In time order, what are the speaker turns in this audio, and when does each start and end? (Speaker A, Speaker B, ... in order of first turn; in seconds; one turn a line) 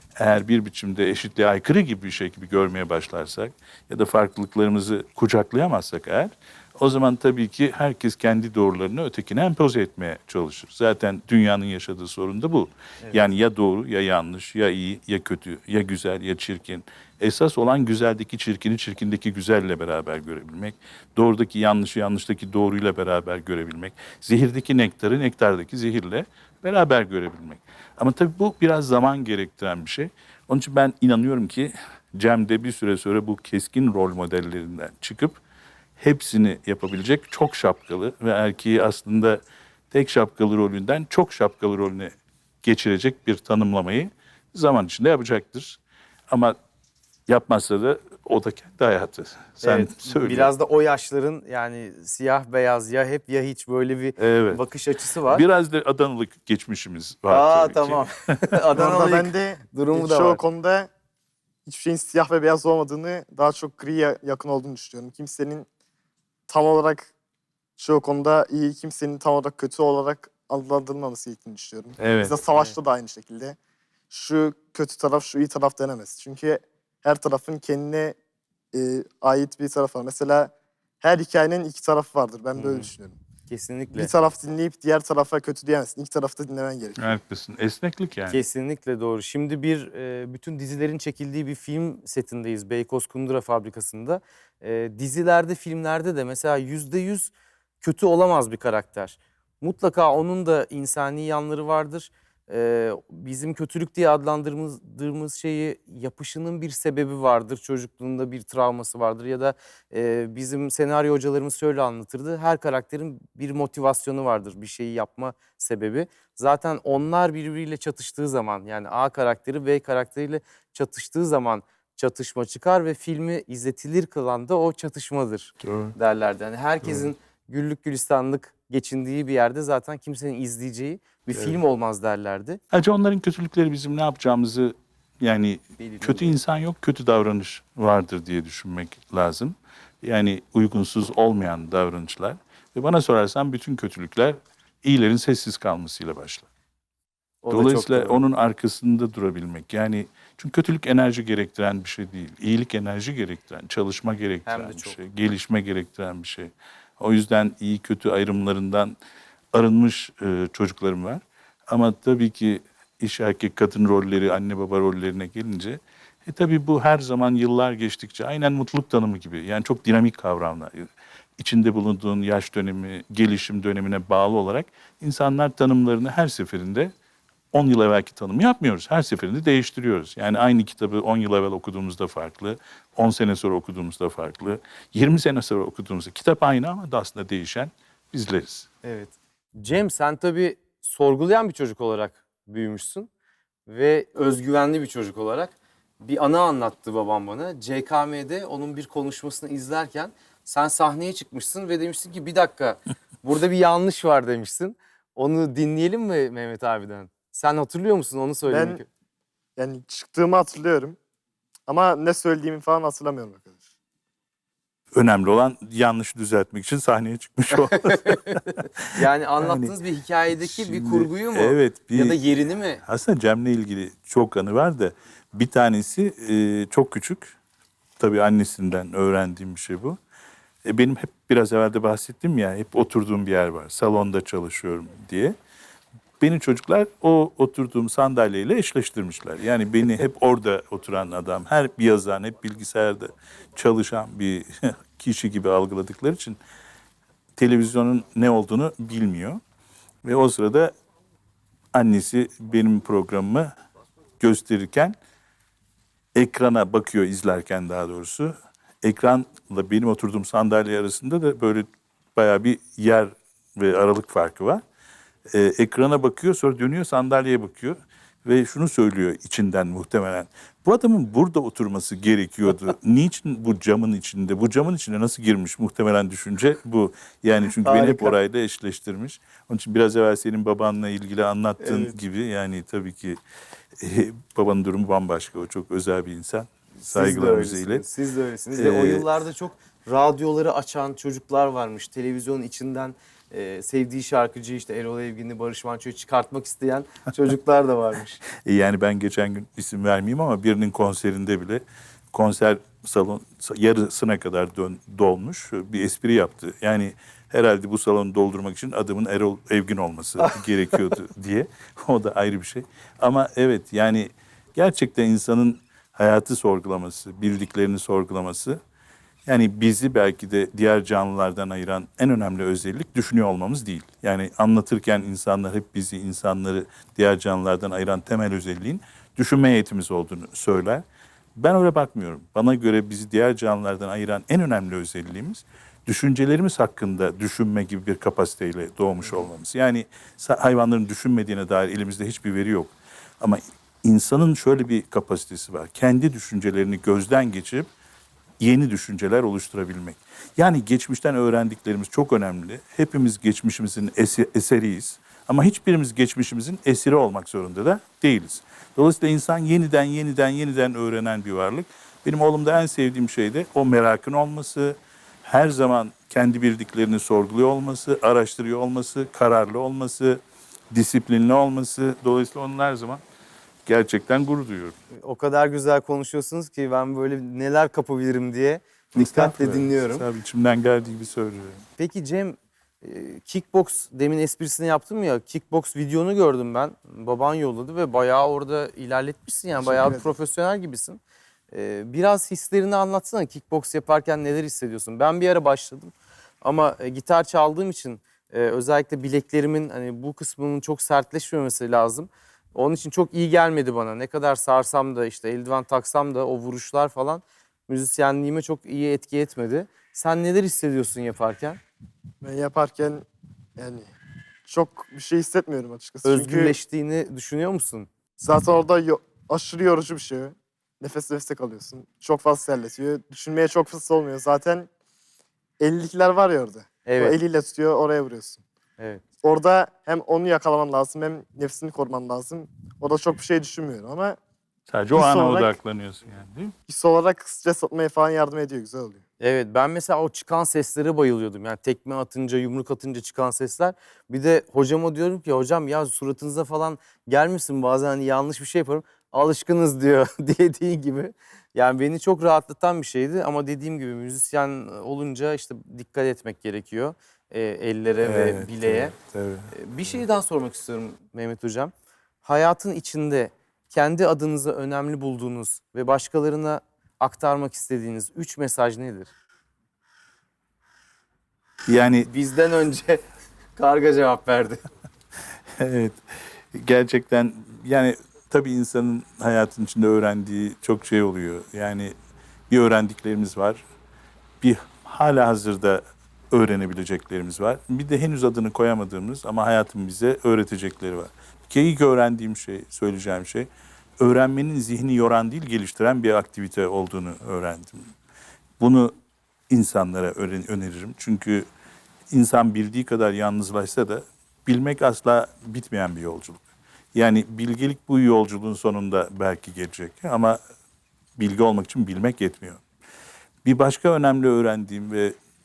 Speaker A: 0.2-35.4
Speaker A: 36.0-46.6
Speaker A: 47.3-50.5
Speaker B: 49.6-55.5
Speaker A: 54.2-54.6
Speaker A: 55.3-58.1
Speaker B: 57.3-60.4
Speaker C: 58.7-60.9
Speaker C: 61.7-65.7
Speaker C: 66.5-67.1
Speaker C: 67.8-73.6
Speaker A: 72.0-72.3
Speaker C: 74.1-78.2
Speaker C: 78.7-83.2
Speaker B: 82.5-82.9
Speaker B: 83.5-84.1
Speaker C: 83.9-87.1
Speaker A: 87.0-88.4
Speaker B: 88.3-132.6
Speaker A: 125.6-125.9
Speaker A: 126.8-127.1
Speaker A: 131.3-131.6
Speaker A: 132.7-146.5
Speaker B: 135.8-136.4
Speaker B: 147.4-148.2
Speaker A: 147.5-159.0
Speaker B: 154.5-155.0
Speaker A: 159.5-176.9
Speaker A: 177.5-188.7
Speaker B: 188.8-193.1
Speaker B: 193.7-208.9
Speaker C: 208.5-208.8
Speaker C: 209.6-211.0
Speaker C: 211.7-213.6
Speaker A: 214.9-218.8
Speaker B: 217.5-222.8
Speaker A: 219.4-219.8
Speaker A: 220.4-222.2
Speaker A: 222.8-227.3
Speaker A: 228.0-230.0
Speaker A: 230.7-235.3
Speaker A: 236.2-246.4
Speaker A: 247.4-249.4
Speaker A: 250.0-250.7
Speaker A: 251.7-253.5
Speaker A: 254.2-255.0
Speaker A: 256.1-264.6
Speaker A: 265.3-283.2
Speaker B: 277.6-278.2
Speaker B: 281.6-281.9
Speaker A: 283.8-287.8
Speaker B: 286.8-298.2
Speaker A: 288.5-289.1
Speaker A: 298.4-318.6
Speaker A: 319.3-330.8
Speaker A: 331.4-347.7
Speaker A: 348.4-370.2
Speaker A: 370.7-373.0
Speaker A: 373.7-374.8
Speaker B: 375.0-380.1
Speaker A: 379.0-381.6
Speaker B: 381.8-391.0
Speaker C: 389.6-390.1
Speaker B: 391.5-411.6
Speaker C: 412.2-413.1
Speaker C: 413.6-413.9
Speaker C: 414.5-416.6
Speaker B: 416.1-417.9
Speaker C: 418.2-424.7
Speaker C: 425.6-428.4
Speaker B: 426.9-427.2
Speaker C: 429.2-434.2
Speaker A: 434.7-436.5
Speaker C: 434.9-435.6
Speaker C: 436.7-439.0
Speaker B: 439.2-459.0
Speaker A: 458.0-459.5
Speaker B: 459.5-461.7
Speaker B: 462.2-469.1
Speaker A: 471.7-472.1
Speaker B: 472.0-473.0
Speaker B: 473.6-474.6
Speaker A: 475.6-476.0
Speaker A: 476.5-481.9
Speaker A: 482.5-483.6
Speaker A: 484.4-493.5
Speaker A: 494.0-497.9
Speaker A: 498.6-498.9
Speaker A: 499.5-501.5
Speaker A: 502.1-510.4
Speaker A: 511.2-512.6
Speaker A: 513.5-515.1